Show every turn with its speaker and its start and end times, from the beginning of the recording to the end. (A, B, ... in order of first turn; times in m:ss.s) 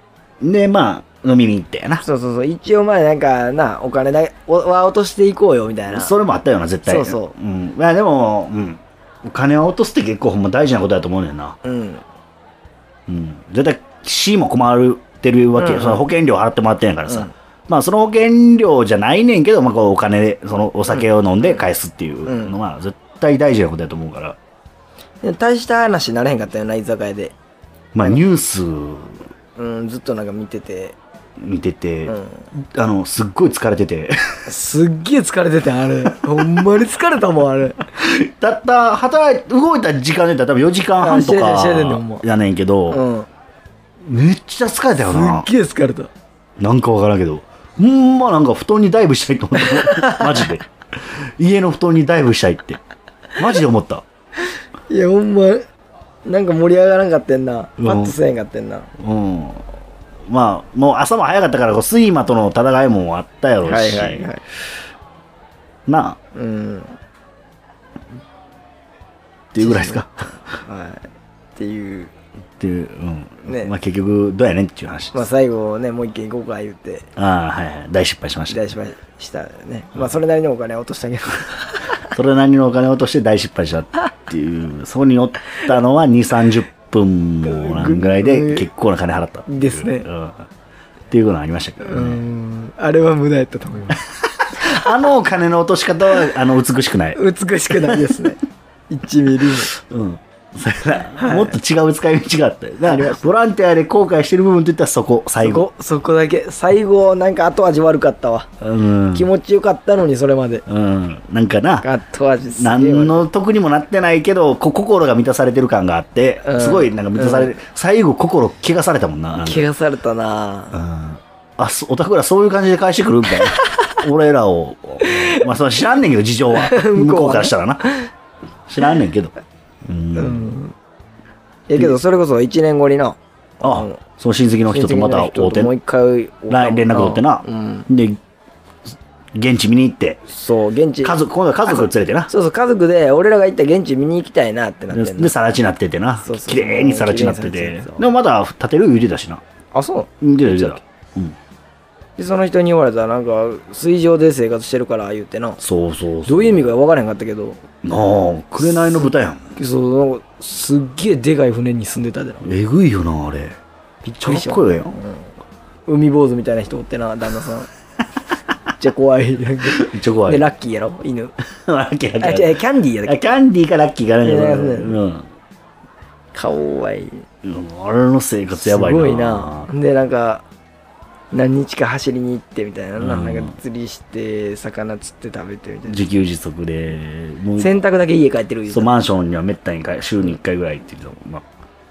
0:00.4-0:02.0 A
0:02.0-0:06.1 B
0:05.9-0:11.6 A
0:06.8-0:07.3 B
0:11.6-0:12.0 B
0:13.1-0:24.4 A
0:15.6-0:16.0 B
0:20.9-0:21.6 B
0:22.2-0:22.5 B
0:25.2-0:27.3 B
0:27.9-0:29.2 A
0:29.6-0:31.0 B
0:31.4-0:34.2 A
0:32.1-0:32.3 B
0:34.5-0:37.8 B
0:37.9-0:43.0 A
0:41.0-0:42.2 B
0:42.9-0:43.3 B
0:44.0-0:45.5 A
0:45.0-0:46.1 B
0:46.6-0:50.6 A
0:49.6-0:50.5 B
0:51.4-0:52.8 A
0:53.4-0:54.0 A
0:54.9-0:55.6 B
0:56.2-0:58.9 B
0:57.8-0:58.2 A
0:59.0-0:59.6 A
1:00.3-1:04.3 A
1:03.6-1:04.4 B
1:05.9-1:06.2 A
1:06.3-1:07.0 B
1:09.5-1:10.3 A
1:09.6-1:10.0 B
1:10.6-1:12.1 B
1:12.6-1:15.2 A
1:13.4-1:13.7 B
1:15.1-1:17.1 B
1:17.2-1:18.6 A
1:18.5-1:21.8 B
1:22.1-1:30.5 A
1:27.4-1:28.7 B
1:29.5-1:30.1 B
1:31.1-1:32.2 A
1:31.8-1:34.0 B
1:34.1-1:37.2 A
1:37.2-1:39.7 B
1:37.7-1:38.2 A
1:39.7-1:45.6 A
1:41.2-1:41.5 B
1:42.8-1:43.2 B
1:45.4-1:48.5 B
1:48.6-1:49.3 A
1:49.1-1:50.6 B
1:50.7-1:51.9 A
1:51.8-1:53.2 B
1:52.6-1:59.7 A
1:56.4-1:57.5 B
1:59.4-2:00.8 B
2:00.7-2:07.8 A
2:03.6-2:04.0 B
2:05.0-2:05.4 B
2:06.5-2:08.1 B
2:08.7-2:09.3 A
2:09.8-2:10.6 A
2:10.1-2:10.7 B
2:11.7-2:14.0 B
2:13.6-2:15.7 A
2:14.7-2:17.9 B
2:16.5-2:18.2 A
2:19.3-2:20.3 A
2:20.3-2:21.2 B
2:21.0-2:22.3 A
2:21.7-2:25.3 B
2:24.9-2:29.4 A
2:26.2-2:28.0 B
2:29.7-2:30.8 B
2:30.2-2:31.4 A
2:32.2-2:35.6 B
2:35.6-2:36.6 A
2:36.2-2:37.6 B
2:37.8-2:39.4 A
2:39.6-2:42.5 B
2:42.4-2:43.6 A
2:44.0-2:45.2 B
2:44.2-2:45.0 A
2:45.9-2:47.7 B
2:48.8-2:51.3 B
2:49.7-2:50.4 A
2:51.6-2:55.2 A
2:52.2-2:53.2 B
2:54.2-2:55.0 B
2:56.3-2:57.2 B
2:57.4-2:59.7 A
2:58.6-3:00.4 B
3:01.3-3:06.0 B
3:03.0-3:03.5 A
3:05.9-3:07.7 A
3:07.6-3:08.9 B
3:08.7-3:11.4 A